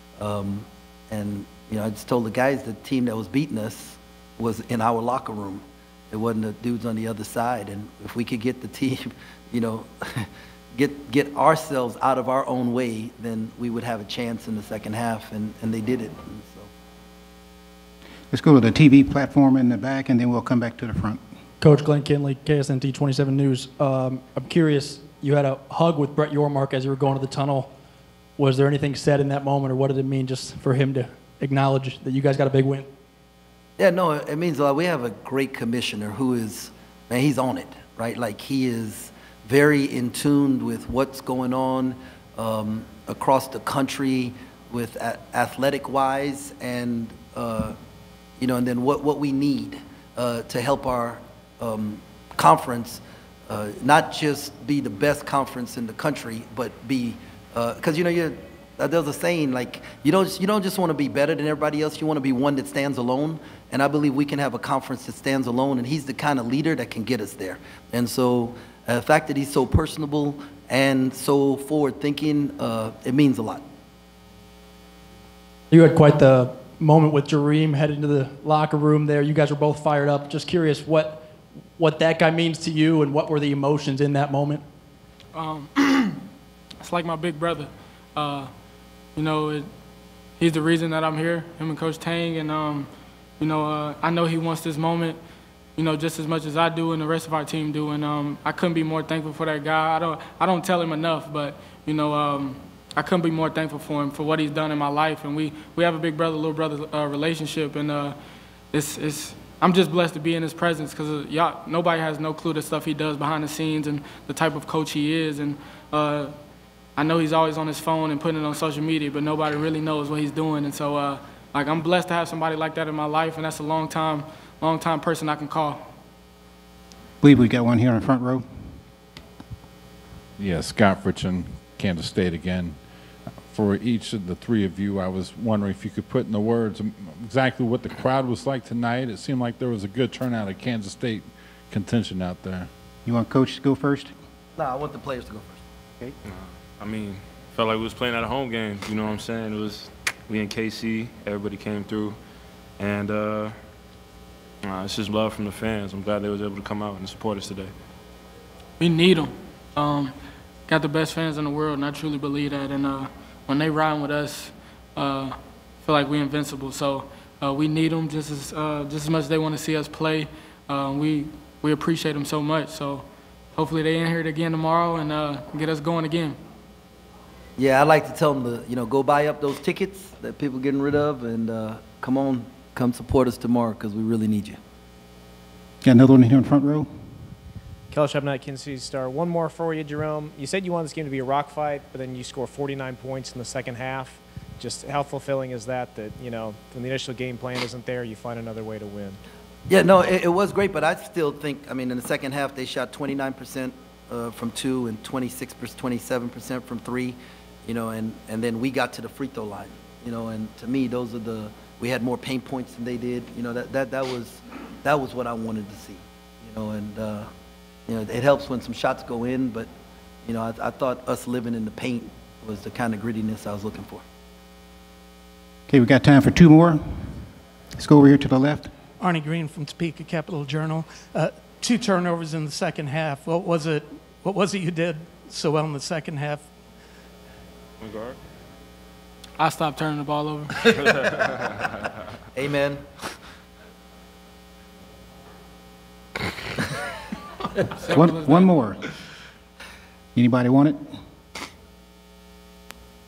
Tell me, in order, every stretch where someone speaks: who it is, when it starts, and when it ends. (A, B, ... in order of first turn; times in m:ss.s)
0:00.2-0:16.7 A
0:18.3-0:21.2 B
0:21.6-0:27.7 C
0:28.4-0:32.9 C
0:33.8-0:47.8 A
0:48.4-1:13.6 A
1:15.7-1:24.6 C
1:25.3-1:26.2 D
1:26.8-1:28.5 D
1:29.2-1:29.6 D
1:30.4-1:32.9 D
1:33.4-1:35.2 D
1:35.8-1:48.2 D
1:48.7-1:56.3 D
1:57.0-2:05.8 D
2:07.2-2:08.4 B
2:10.4-2:12.8 E
2:13.4-2:22.7 E
2:23.0-2:24.1 B
2:24.6-2:25.6 A
2:26.2-2:32.2 F
2:32.8-2:33.6 F
2:34.6-2:37.7 F
2:38.8-2:40.1 D
2:40.7-2:53.0 D
2:53.6-2:56.4 D
2:57.6-3:04.6 A
3:05.8-3:06.9 B
3:07.9-3:19.2 G
3:19.7-3:37.3 A
3:37.9-3:39.7 A
3:40.2-3:44.0 A
3:45.7-3:46.8 B
3:47.8-3:48.7 B
3:49.0-3:56.5 H
3:57.8-3:58.2 F
3:59.4-4:00.7 D
4:02.3-4:02.8 A
4:07.8-4:08.5 D
4:07.9-4:08.8 B
4:10.1-4:10.8 B